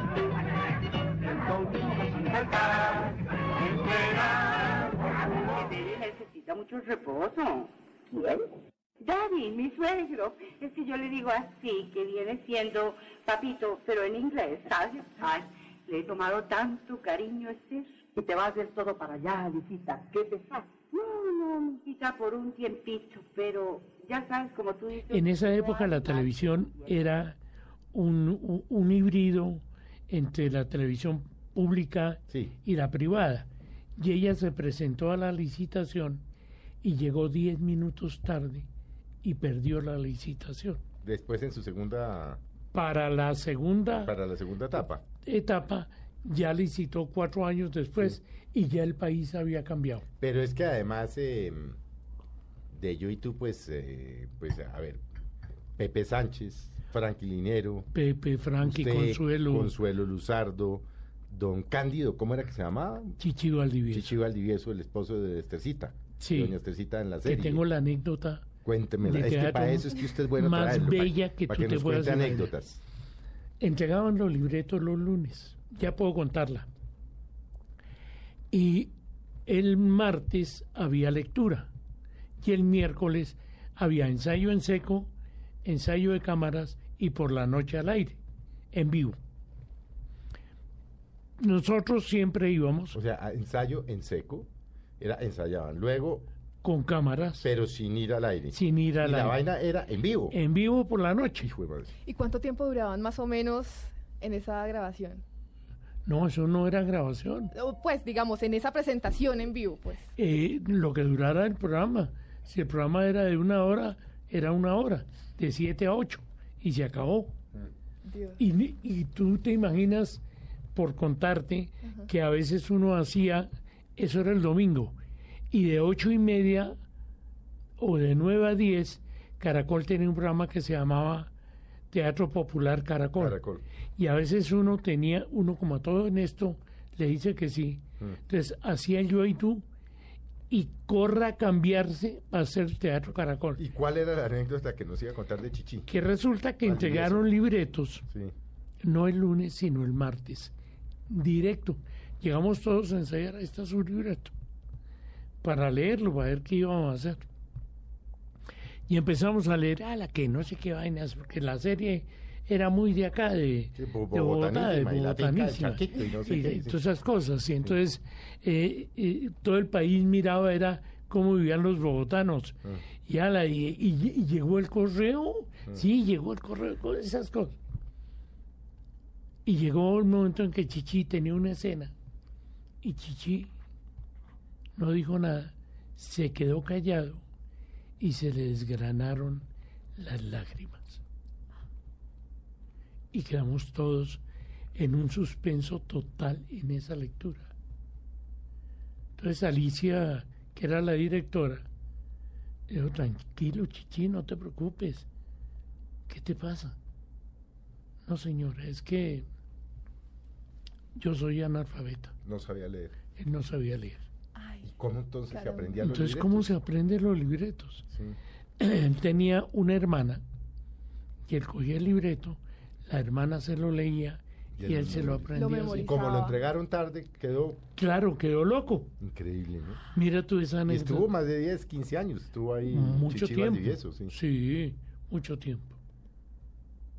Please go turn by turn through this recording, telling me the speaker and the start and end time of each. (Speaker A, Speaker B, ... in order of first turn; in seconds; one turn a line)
Speaker A: 1.3-27.0
Speaker B: 25.1-27.4
Speaker B: 27.9-36.2
Speaker C: 32.3-32.5
Speaker B: 36.8-38.7
Speaker B: 39.2-40.8
Speaker C: 41.0-42.4
Speaker B: 42.7-44.1
Speaker C: 44.0-45.0
Speaker B: 45.2-50.0
Speaker C: 50.2-51.8
Speaker C: 52.7-55.0
Speaker C: 55.8-57.9
Speaker B: 57.9-59.7
Speaker C: 58.6-63.1
Speaker B: 63.2-64.2
Speaker C: 63.9-67.6
Speaker B: 66.2-66.5
Speaker B: 67.2-68.5
Speaker C: 68.6-72.8
Speaker B: 69.0-72.5
Speaker B: 73.6-76.7
Speaker B: 78.5-78.9
Speaker B: 79.5-81.7
Speaker B: 82.4-85.1
Speaker B: 85.6-88.2
Speaker B: 88.7-89.2
Speaker B: 91.4-93.0
Speaker C: 92.9-94.5
Speaker C: 95.0-96.3
Speaker B: 96.6-97.5
Speaker C: 97.4-100.3
Speaker B: 98.5-99.4
Speaker B: 100.3-101.5
Speaker C: 101.4-101.9
Speaker D: 102.0-105.2
Speaker B: 106.0-107.5
Speaker D: 107.5-110.0
Speaker B: 110.2-117.3
Speaker D: 118.0-118.4
Speaker B: 118.4-120.2
Speaker B: 120.7-125.0
Speaker B: 125.5-126.8
Speaker B: 127.8-131.3
Speaker B: 131.9-133.4
Speaker C: 133.2-133.6
Speaker B: 133.9-139.6
Speaker B: 140.5-143.6
Speaker C: 143.6-145.9
Speaker B: 145.9-148.0
Speaker C: 146.6-147.3
Speaker C: 148.1-148.3
Speaker B: 148.8-150.5
Speaker B: 151.1-154.3
Speaker B: 155.4-157.2
Speaker B: 158.9-177.6
Speaker C: 163.7-166.8
Speaker B: 179.4-181.9
Speaker B: 182.8-183.5
Speaker B: 184.7-187.2
Speaker B: 188.0-191.0
Speaker B: 193.1-194.2
Speaker B: 194.7-197.5
Speaker B: 199.2-201.7
Speaker B: 202.7-205.1
Speaker B: 206.1-206.8
Speaker B: 208.1-209.2
Speaker B: 210.9-212.1
Speaker C: 212.2-212.9
Speaker B: 213.2-214.0
Speaker D: 214.3-214.7
Speaker C: 214.6-216.5
Speaker D: 215.3-215.8
Speaker B: 215.8-217.9
Speaker C: 217.9-218.2
Speaker B: 218.6-220.2
Speaker B: 221.3-225.9
Speaker C: 224.6-227.6
Speaker D: 225.3-226.4
Speaker B: 227.8-228.9
Speaker C: 229.0-229.8
Speaker B: 229.9-231.1
Speaker C: 230.7-234.1
Speaker B: 232.7-235.8